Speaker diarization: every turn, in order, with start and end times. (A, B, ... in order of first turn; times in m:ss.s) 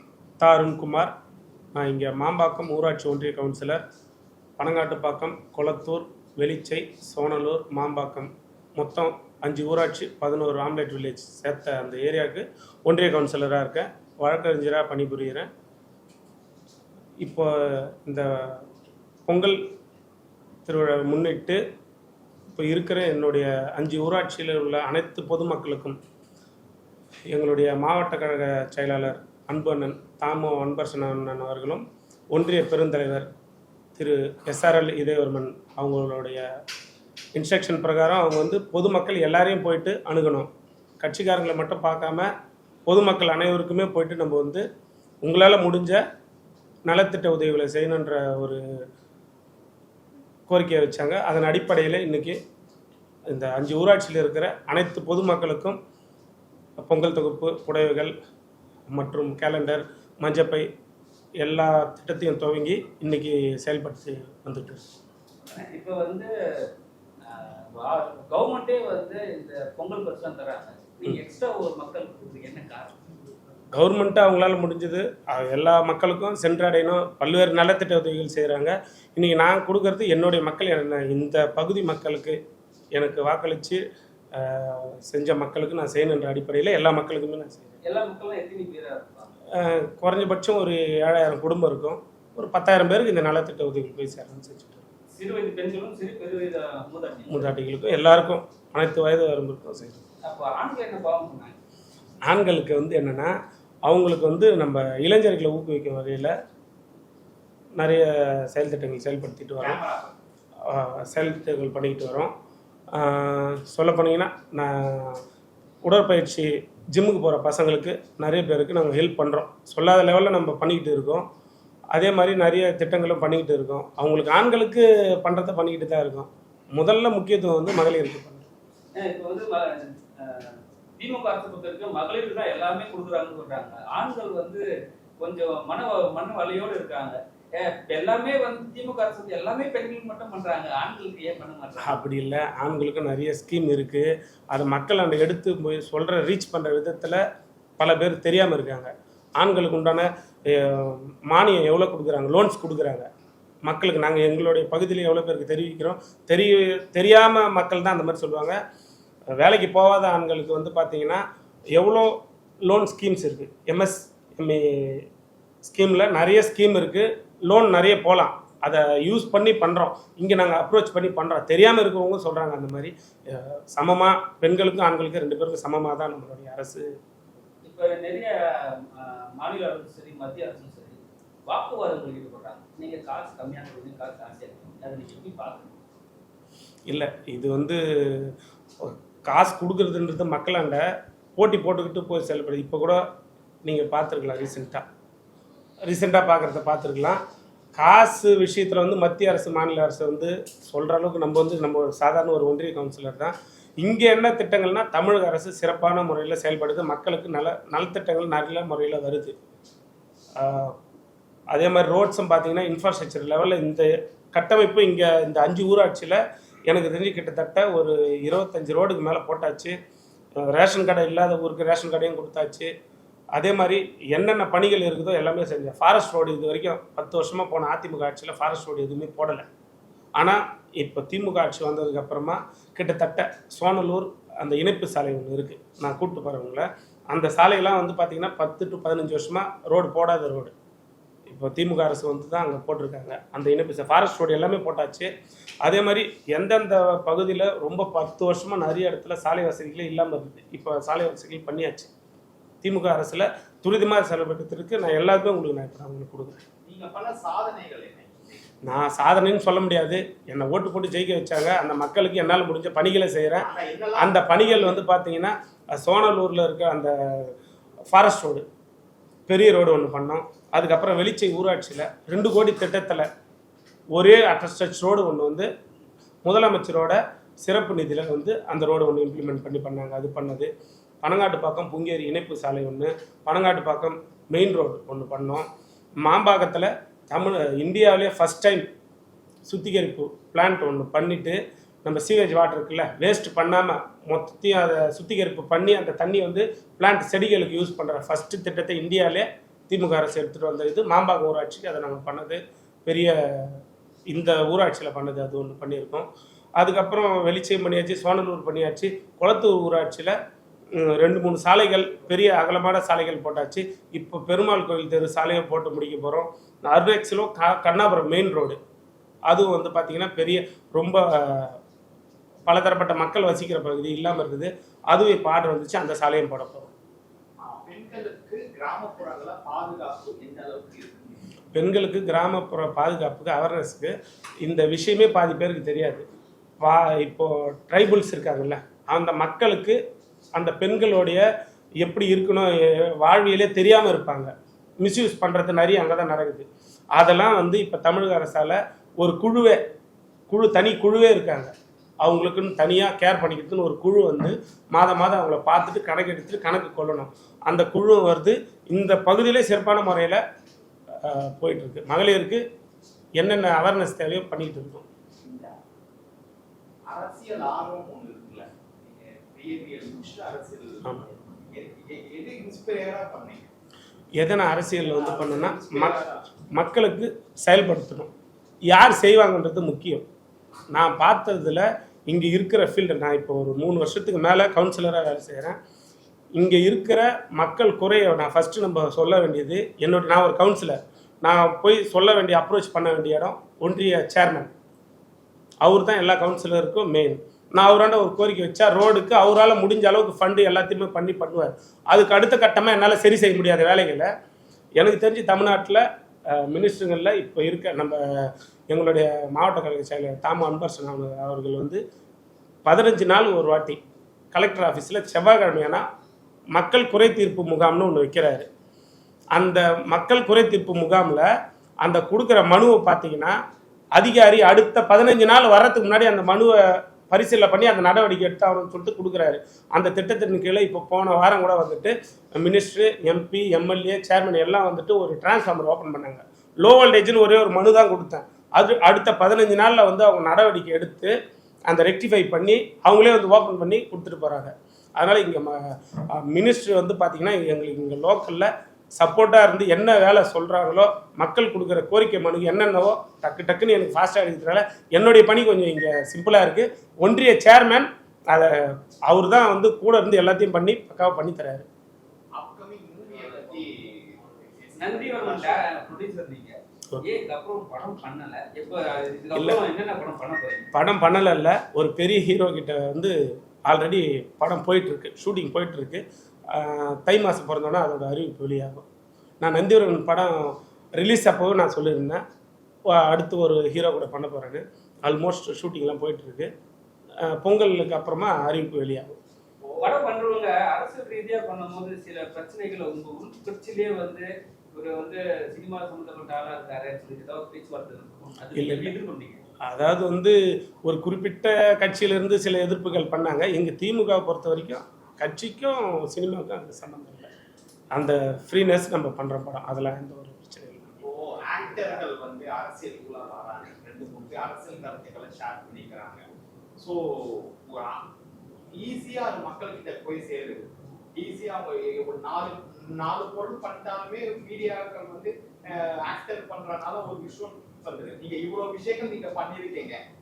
0:00.4-0:01.1 A
0:01.7-0:03.8 A
0:04.6-0:15.5 A
0:17.2-0:18.6 A
0:19.3-0:19.6 A
0:20.6-0:21.6 A
0:22.6-0:26.0 A
0:27.3-0:33.3 A
0:34.0-0:36.4 A
0:37.3-0:42.3 A
0:42.9-0:44.6 A
0:45.2-0:46.0 A
0:46.9-0:48.6 A
0:50.5-0:52.4 A
0:53.3-0:55.8 A
0:56.8-0:58.1 A
0:58.9-1:00.7 A
1:01.4-1:04.8 A
1:05.5-1:06.7 B
1:07.2-1:13.1 B
1:13.7-1:22.4 A
1:23.0-1:23.8 A
1:24.3-1:27.8 A
1:27.8-1:29.3 B
1:29.5-1:34.9 A
1:35.1-1:37.5 B
1:37.3-1:40.0 A
1:40.2-1:41.6 B
1:42.2-1:43.3 A
1:43.8-1:46.3 A
1:47.8-1:49.8 A
1:49.6-1:50.2 C
1:50.6-1:52.3 A
1:52.9-1:55.2 A
1:55.8-2:01.2 A
2:01.9-2:08.5 A
2:08.9-2:14.6 B
2:15.2-2:22.0 B
2:21.8-2:27.2 A
2:27.8-2:33.1 A
2:33.6-2:38.6 A
2:39.3-2:41.2 A
2:41.8-2:45.0 A
2:45.6-2:56.9 A
2:57.6-3:05.7 B
3:06.9-3:10.8 A
3:11.4-3:13.0 A
3:13.6-3:14.8 A
3:15.8-3:17.2 A
3:17.8-3:29.3 A
3:30.4-3:30.7 A
3:31.5-3:39.8 A
3:40.4-3:42.7 A
3:43.3-3:49.4 A
3:50.2-4:00.5 A
4:01.3-4:05.1 A
4:05.6-4:11.9 A
4:12.6-4:16.4 A
4:16.6-4:18.4 C
4:18.6-4:27.3 A
4:23.4-4:24.8 C
4:27.9-4:28.4 A
4:29.3-4:33.1 A
4:33.9-4:35.5 A
4:36.2-4:40.5 A
4:41.0-4:45.5 A
4:46.0-4:48.7 A
4:49.4-5:10.2 A
5:10.7-5:18.6 A
5:19.3-5:21.6 A
5:22.5-5:26.7 A
5:27.4-5:31.1 C
5:31.5-5:36.1 A
5:36.6-5:39.8 A
5:40.3-5:41.2 A
5:41.8-5:49.6 A
5:50.3-5:51.5 A
5:52.0-6:00.2 A
6:01.0-6:02.4 A
6:03.2-6:04.8 A
6:05.2-6:05.5 C
6:06.9-6:10.9 C
6:10.8-6:11.1 A
6:11.5-6:13.4 C
6:14.2-6:16.0 A
6:14.8-6:16.2 C
6:16.5-6:18.1 A
6:18.7-6:20.0 A
6:20.7-6:25.6 A
6:26.4-6:34.5 A
6:35.6-6:44.1 A
6:44.8-6:51.8 A
6:52.6-6:53.8 A
6:54.3-6:55.8 A
6:56.5-6:58.5 A
6:59.3-7:01.3 A
7:01.8-7:03.4 A
7:04.0-7:21.1 A
7:21.7-7:41.6 A
7:42.3-7:45.6 C
7:44.8-7:50.7 B
7:49.3-7:49.6 A
7:50.7-7:53.2 A
7:53.7-7:58.8 A
7:59.4-8:02.2 A
8:02.9-8:06.5 A
8:07.2-8:09.1 A
8:09.7-8:19.4 B
8:18.5-8:19.0 A
8:19.6-8:27.3 A
8:27.9-8:31.0 A
8:31.0-8:36.2 C
8:36.8-8:38.0 C
8:38.8-8:50.0 C